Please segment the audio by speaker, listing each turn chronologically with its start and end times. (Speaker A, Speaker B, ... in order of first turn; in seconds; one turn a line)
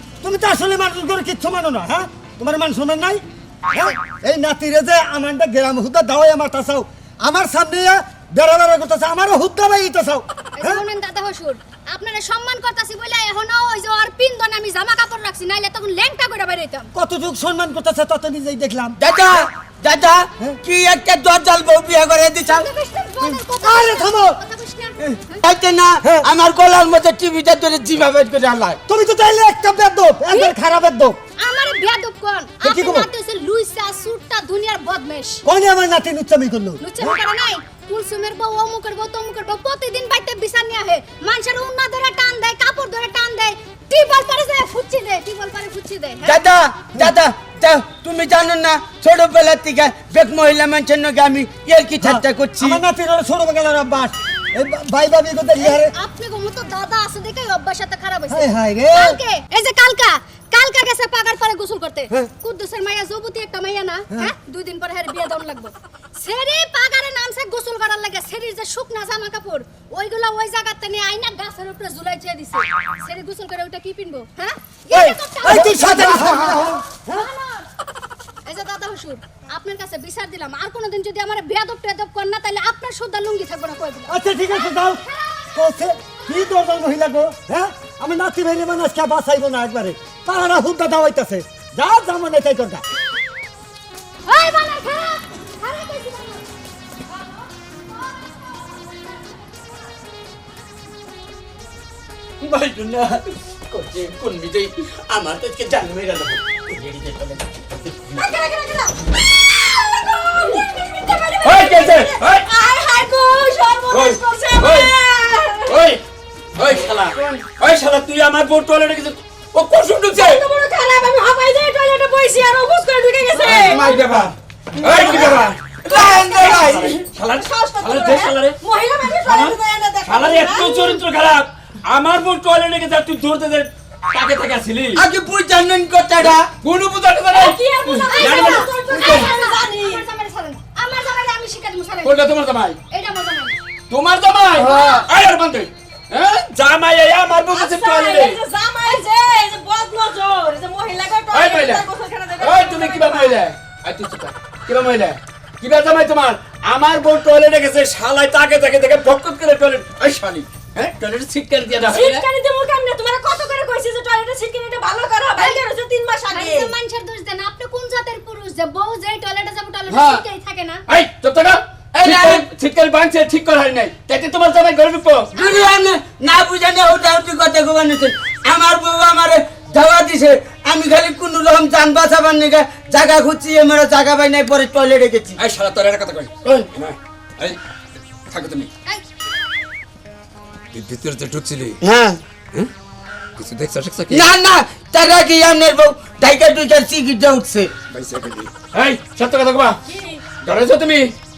Speaker A: 0.2-10.8
Speaker B: 10.6-16.9
Speaker A: 16.9-19.0
Speaker C: 19.0-22.7
Speaker B: 22.5-25.4
Speaker A: 23.6-24.4
Speaker C: 25.0-28.8
Speaker A: 26.0-26.3
Speaker A: 28.9-31.2
Speaker B: 31.4-35.4
Speaker A: 32.6-33.1
Speaker A: 35.4-37.2
Speaker B: 36.8-46.4
Speaker C: 46.2-52.8
Speaker A: 52.0-55.9
Speaker B: 55.6-77.7
Speaker A: 58.3-59.2
Speaker A: 74.9-77.2
Speaker C: 75.7-76.2
Speaker B: 78.4-86.7
Speaker A: 84.1-85.0
Speaker A: 85.5-92.8
Speaker B: 94.2-96.4
Speaker C: 102.4-108.2
Speaker D: 108.2-115.8
Speaker E: 111.4-112.5
Speaker E: 113.9-114.9
Speaker E: 115.7-116.0
Speaker E: 116.6-120.4
Speaker D: 120.1-123.9
Speaker E: 123.4-124.3
Speaker C: 123.5-124.3
Speaker E: 124.8-125.8
Speaker D: 124.9-125.3
Speaker C: 124.9-126.9
Speaker D: 125.9-126.7
Speaker E: 126.3-128.6
Speaker D: 127.3-131.0
Speaker E: 129.2-135.0
Speaker C: 135.0-136.5
Speaker E: 136.6-139.3
Speaker D: 137.3-140.0
Speaker B: 138.1-142.2
Speaker E: 142.0-142.8
Speaker B: 142.9-143.6
Speaker E: 143.9-148.4
Speaker D: 144.6-145.1
Speaker D: 147.5-153.4
Speaker E: 151.3-151.9
Speaker E: 152.4-162.2
Speaker D: 161.8-166.7
Speaker B: 165.3-165.6
Speaker B: 166.3-170.8
Speaker E: 169.9-170.2
Speaker E: 170.9-175.3
Speaker C: 172.0-172.5
Speaker C: 175.3-185.4
Speaker B: 175.4-175.7
Speaker E: 185.4-187.6
Speaker E: 188.3-188.7
Speaker E: 190.7-191.8
Speaker C: 191.8-192.2
Speaker E: 193.4-194.3
Speaker C: 194.1-197.7
Speaker E: 197.9-199.8
Speaker D: 199.9-200.3
Speaker E: 200.3-201.1